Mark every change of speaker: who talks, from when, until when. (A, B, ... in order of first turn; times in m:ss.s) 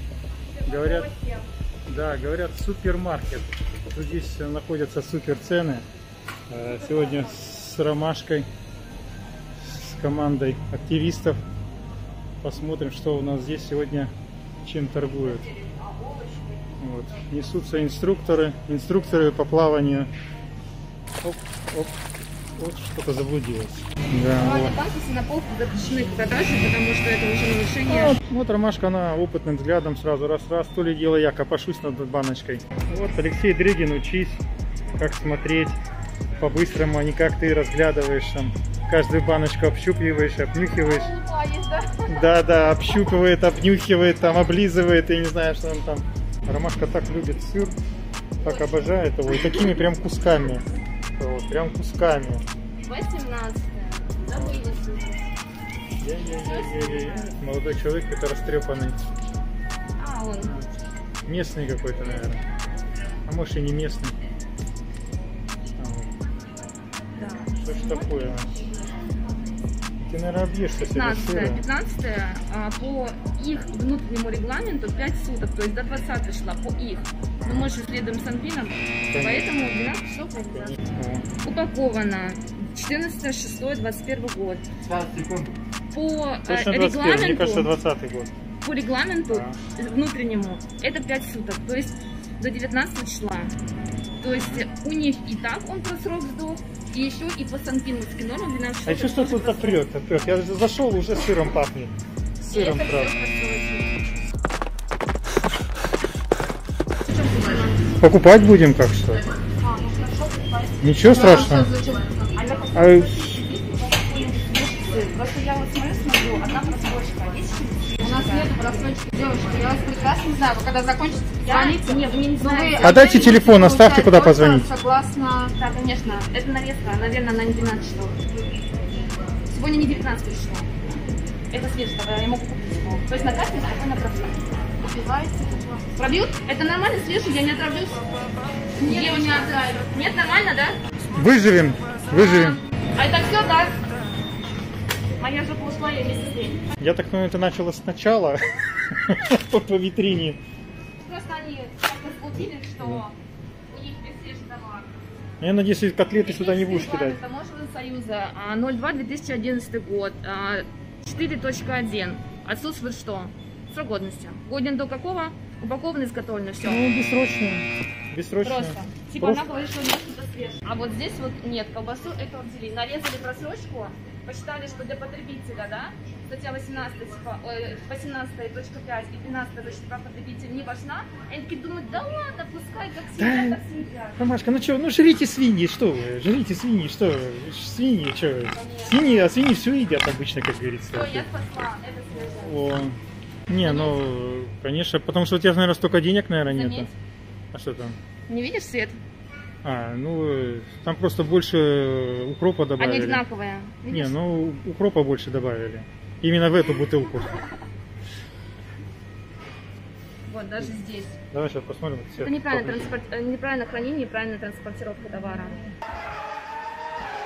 0:00.5-0:01.4 A
0:00.6-0:01.1 B
0:01.9-0:05.8 B
0:06.5-0:08.5 B
0:09.6-0:11.4 B
0:12.4-0:14.1 B
0:14.6-0:15.5 B
0:15.2-0:16.7 A
0:16.8-0:20.1 B
0:21.2-0:21.9 B
0:22.6-0:24.7 B
0:24.4-0:28.2 C
0:27.9-0:34.4 B
0:35.0-0:35.8 B
0:36.4-0:41.1 B
0:40.8-0:42.1 C
0:42.1-0:47.7 B
0:48.4-0:48.7 C
0:48.4-0:50.6 B
0:51.2-0:52.4 B
0:52.8-0:55.3 C
0:54.3-0:54.6 B
0:56.0-0:59.0 B
0:56.4-0:57.3 C
1:00.0-1:00.5 C
1:00.4-1:00.7 B
1:01.2-1:02.4 B
1:03.2-1:04.1 B
1:05.8-1:06.1 B
1:07.2-1:08.6 C
1:07.5-1:08.5 B
1:10.0-1:11.6 B
1:10.8-1:20.8 C
1:19.1-1:19.5 B
1:20.5-1:21.3 B
1:21.4-1:24.6 C
1:24.8-1:25.5 B
1:25.9-1:27.7 C
1:26.5-1:28.3 B
1:28.6-1:33.5 C
1:29.3-1:29.6 B
1:34.2-1:39.8 C
1:34.3-1:34.6 B
1:38.8-1:43.1 B
1:42.5-1:44.0 A
1:42.7-1:43.0 C
1:47.1-1:47.9 A
1:48.0-1:49.2 B
1:49.6-1:52.7 A
1:50.8-1:51.7 B
1:51.2-1:51.5 C
1:52.4-1:58.9 C
1:52.7-1:53.1 B
1:53.2-1:53.5 A
1:54.2-1:56.8 A
1:58.0-2:05.6 A
2:01.4-2:03.5 C
2:02.8-2:04.7 B
2:05.6-2:08.2 C
2:09.5-2:10.7 C
2:11.5-2:14.4 C
2:14.8-2:15.9 A
2:16.0-2:18.0 C
2:18.8-2:19.9 A
2:18.8-2:20.8 C
2:21.1-2:22.6 B
2:22.1-2:23.8 C
2:25.2-2:26.6 C
2:26.8-2:28.4 B
2:28.9-2:30.4 B
2:31.0-2:33.1 C
2:33.7-2:35.0 C
2:35.4-2:37.2 B
2:36.2-2:46.8 C
2:46.6-2:49.4 B
2:48.4-3:04.2 C
3:03.2-3:03.6 B
3:04.2-3:11.3 B
3:08.5-3:09.3 C
3:10.9-3:12.6 C
3:12.4-3:13.0 B
3:13.5-3:16.9 B
3:13.6-3:14.0 C
3:16.4-3:16.9 C
3:17.5-3:18.0 B
3:18.3-3:19.0 C
3:19.6-3:23.2 B
3:22.8-3:24.1 C
3:23.9-3:27.3 B
3:30.3-3:31.1 C
3:31.3-3:32.9 B
3:32.2-3:35.6 C